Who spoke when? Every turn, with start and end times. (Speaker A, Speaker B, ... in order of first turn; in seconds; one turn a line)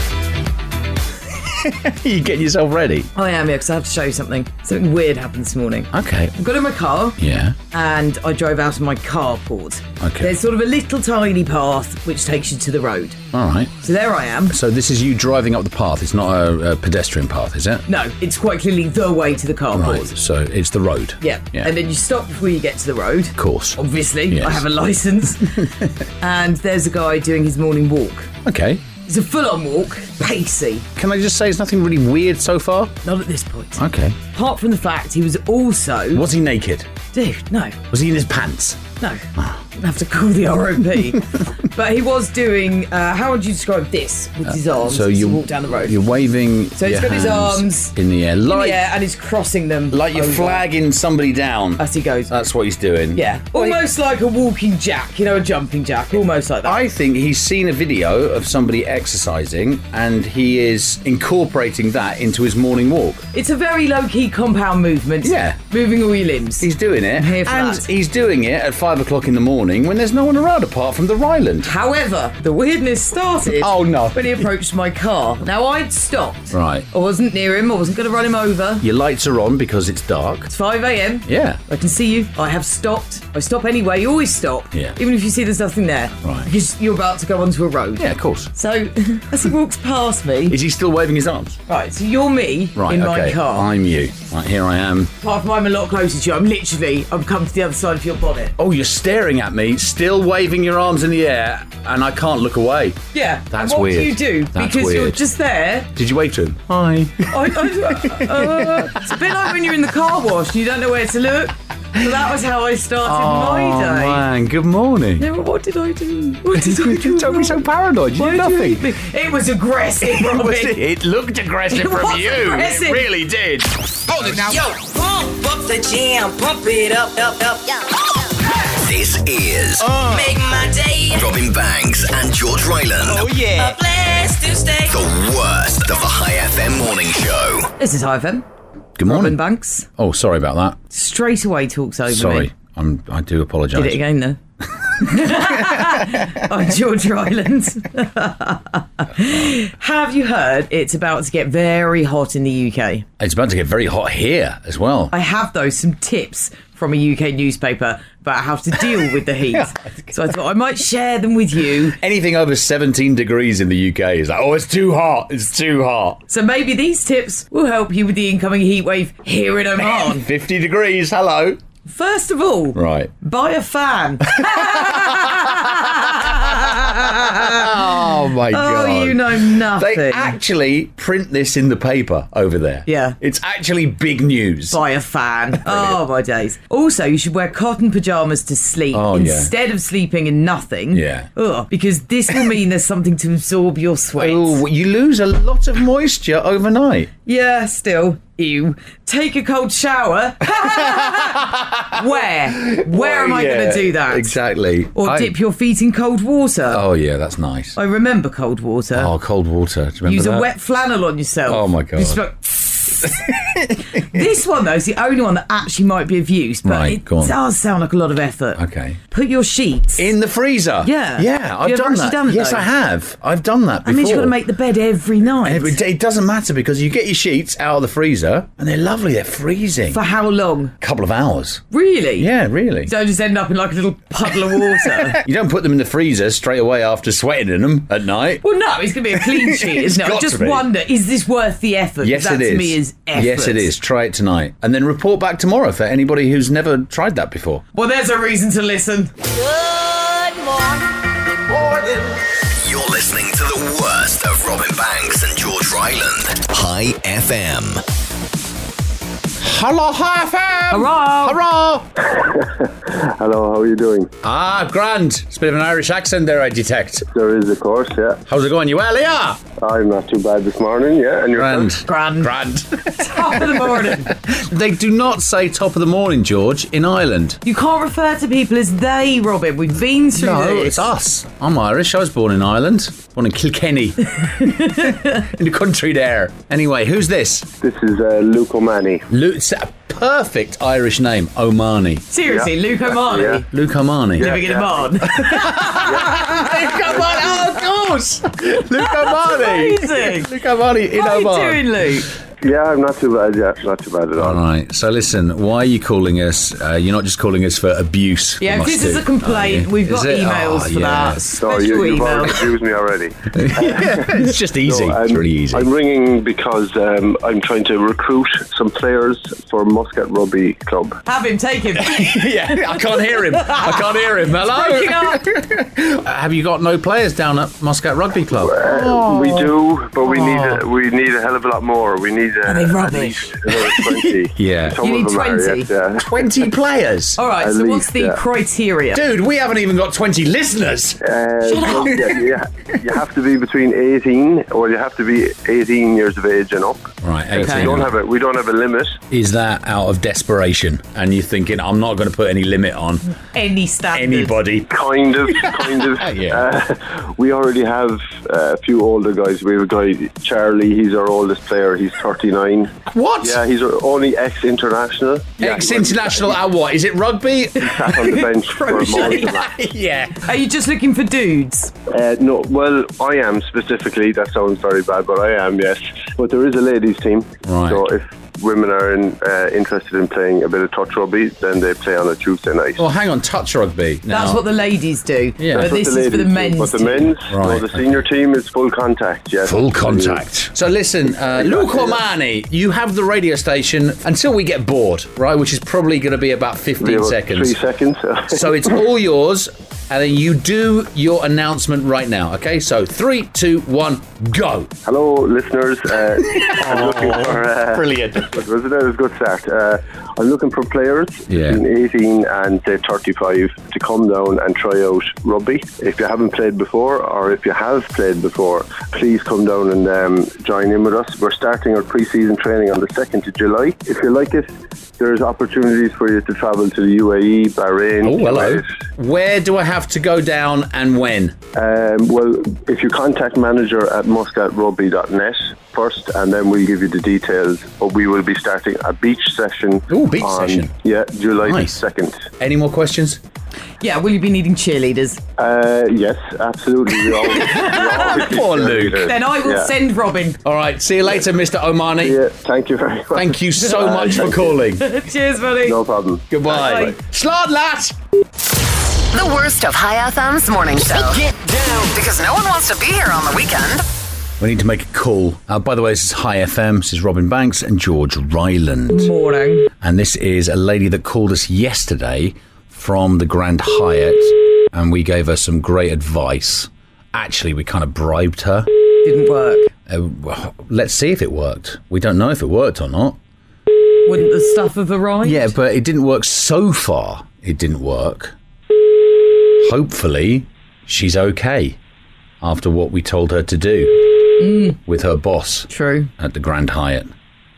Speaker A: 1.5-3.1
Speaker B: 3.1-7.2
Speaker A: 5.9-6.3
Speaker A: 7.2-7.5
Speaker B: 7.7-13.2
Speaker A: 10.0-10.3
Speaker A: 13.3-13.8
Speaker B: 13.8-14.6
Speaker A: 14.5-17.9
Speaker B: 17.9-20.1
Speaker A: 19.7-21.7
Speaker B: 21.2-28.3
Speaker A: 23.4-24.6
Speaker A: 28.4-28.8
Speaker B: 29.1-30.9
Speaker A: 30.9-33.0
Speaker B: 33.0-33.8
Speaker A: 33.8-34.2
Speaker B: 34.3-36.2
Speaker A: 36.1-36.9
Speaker B: 37.1-37.8
Speaker A: 37.9-38.8
Speaker B: 39.0-46.0
Speaker A: 44.4-48.8
Speaker B: 46.8-47.9
Speaker B: 48.5-50.6
Speaker A: 49.9-53.8
Speaker B: 51.8-52.3
Speaker B: 53.1-56.8
Speaker A: 56.6-63.2
Speaker B: 63.3-67.9
Speaker A: 65.2-65.6
Speaker A: 66.6-71.7
Speaker B: 71.6-78.8
Speaker A: 73.5-74.5
Speaker A: 76.5-76.9
Speaker A: 78.8-80.5
Speaker B: 80.5-90.6
Speaker A: 81.2-81.6
Speaker A: 86.2-86.5
Speaker A: 88.0-88.5
Speaker A: 90.5-91.6
Speaker B: 91.7-93.7
Speaker A: 92.7-95.1
Speaker B: 95.2-98.5
Speaker A: 98.6-105.2
Speaker B: 103.1-105.9
Speaker A: 105.9-109.0
Speaker B: 107.3-114.2
Speaker A: 113.0-115.3
Speaker B: 115.2-117.6
Speaker A: 116.5-118.9
Speaker B: 118.2-120.8
Speaker A: 120.0-124.6
Speaker B: 121.7-123.1
Speaker C: 124.3-127.8
Speaker D: 128.7-130.0
Speaker A: 129.8-130.2
Speaker C: 130.0-131.3
Speaker D: 131.1-133.3
Speaker A: 133.3-133.6
Speaker C: 133.4-135.0
Speaker D: 134.9-137.7
Speaker B: 137.8-138.4
Speaker A: 139.0-139.4
Speaker B: 139.0-139.9
Speaker A: 139.9-140.8
Speaker B: 140.9-142.5
Speaker A: 142.1-144.0
Speaker B: 143.7-144.4
Speaker B: 145.0-153.1
Speaker A: 145.1-146.0
Speaker A: 153.2-155.1
Speaker B: 155.1-161.9
Speaker A: 159.5-160.1
Speaker A: 161.8-166.2
Speaker B: 166.3-170.3
Speaker A: 169.8-171.6
Speaker B: 171.8-177.8
Speaker A: 172.7-173.1
Speaker A: 174.3-184.8
Speaker B: 178.5-180.4
Speaker B: 182.8-183.2
Speaker B: 184.7-194.6
Speaker A: 185.5-186.0
Speaker A: 188.9-189.5
Speaker A: 190.9-191.3
Speaker A: 194.2-197.1
Speaker B: 197.2-204.4
Speaker A: 200.5-205.3
Speaker B: 204.9-206.8
Speaker A: 206.7-207.8
Speaker B: 207.7-209.1
Speaker A: 208.9-210.5
Speaker B: 210.0-213.2
Speaker A: 211.5-212.2
Speaker A: 213.2-213.8
Speaker B: 213.9-220.1
Speaker A: 216.6-217.3
Speaker A: 218.6-219.0
Speaker A: 220.0-224.4
Speaker B: 220.8-222.7
Speaker B: 223.8-225.8
Speaker A: 225.4-230.0
Speaker B: 229.9-230.7
Speaker A: 230.8-231.6
Speaker B: 231.7-232.3
Speaker A: 232.2-232.9
Speaker B: 232.8-235.2
Speaker A: 234.8-238.4
Speaker B: 238.4-243.7
Speaker A: 239.2-240.7
Speaker A: 242.0-247.6
Speaker B: 247.7-249.1
Speaker C: 249.6-250.7
Speaker D: 252.3-257.8
Speaker A: 259.4-261.9
Speaker B: 260.7-261.4
Speaker E: 262.1-264.1
Speaker A: 264.2-267.0
Speaker E: 267.1-268.2
Speaker A: 268.3-269.4
Speaker E: 269.6-271.8
Speaker A: 271.3-277.4
Speaker B: 271.8-272.3
Speaker B: 273.0-274.2
Speaker B: 277.4-280.9
Speaker A: 280.1-287.5
Speaker B: 284.4-285.1
Speaker E: 287.6-289.1
Speaker A: 289.1-292.0
Speaker B: 292.1-293.5
Speaker E: 292.2-293.4
Speaker A: 293.5-294.4
Speaker B: 294.1-297.5
Speaker E: 294.2-295.1
Speaker A: 295.1-301.7
Speaker E: 295.8-297.4
Speaker B: 298.8-300.3
Speaker B: 300.9-302.1
Speaker E: 302.4-304.4
Speaker A: 304.2-311.3
Speaker B: 308.4-312.5
Speaker E: 311.3-321.0
Speaker A: 313.3-315.7
Speaker B: 321.1-322.3
Speaker A: 321.8-330.6
Speaker B: 323.1-325.4
Speaker E: 328.3-336.4
Speaker B: 332.4-333.5
Speaker A: 334.3-334.8
Speaker B: 334.8-335.7
Speaker A: 336.0-337.2
Speaker B: 337.2-339.0
Speaker E: 337.3-338.2
Speaker A: 338.9-341.0
Speaker E: 341.0-349.0
Speaker B: 341.4-342.2
Speaker A: 347.0-347.9
Speaker B: 347.3-347.7
Speaker A: 349.1-353.1
Speaker B: 353.3-354.4
Speaker A: 353.9-354.7
Speaker E: 354.7-366.4
Speaker A: 355.2-356.4
Speaker A: 362.9-363.4
Speaker A: 365.4-367.9
Speaker E: 367.6-369.5
Speaker B: 367.6-369.4
Speaker A: 368.9-370.2
Speaker B: 370.2-371.7
Speaker E: 371.9-382.8
Speaker A: 377.4-377.9
Speaker A: 382.8-384.4
Speaker B: 384.1-387.1
Speaker A: 385.4-385.7
Speaker E: 385.5-390.2
Speaker A: 387.3-388.0
Speaker A: 389.4-397.6
Speaker E: 391.2-392.0
Speaker E: 396.8-398.8
Speaker A: 398.3-404.7
Speaker E: 404.8-424.5
Speaker A: 406.3-408.4
Speaker A: 411.3-411.6
Speaker E: 425.0-428.6
Speaker A: 428.0-431.4
Speaker E: 431.5-442.3
Speaker A: 439.9-440.7
Speaker A: 441.4-441.8
Speaker A: 442.4-443.2
Speaker B: 443.8-445.2
Speaker E: 445.4-449.7
Speaker B: 447.1-448.4
Speaker A: 447.4-449.1
Speaker B: 449.0-450.4
Speaker A: 450.4-452.2
Speaker E: 451.0-451.3
Speaker E: 452.0-454.6
Speaker A: 453.1-454.9
Speaker B: 454.7-455.8
Speaker E: 455.6-456.9
Speaker A: 456.3-457.9
Speaker B: 456.4-456.9
Speaker F: 459.1-463.8
Speaker A: 464.4-469.1
Speaker B: 468.9-469.7
Speaker A: 469.8-478.7
Speaker B: 479.0-479.7
Speaker A: 479.9-483.2
Speaker B: 484.1-485.5
Speaker A: 485.2-488.3
Speaker A: 489.6-491.8
Speaker A: 492.4-494.0
Speaker B: 494.4-494.8
Speaker A: 494.8-497.1
Speaker B: 495.7-496.1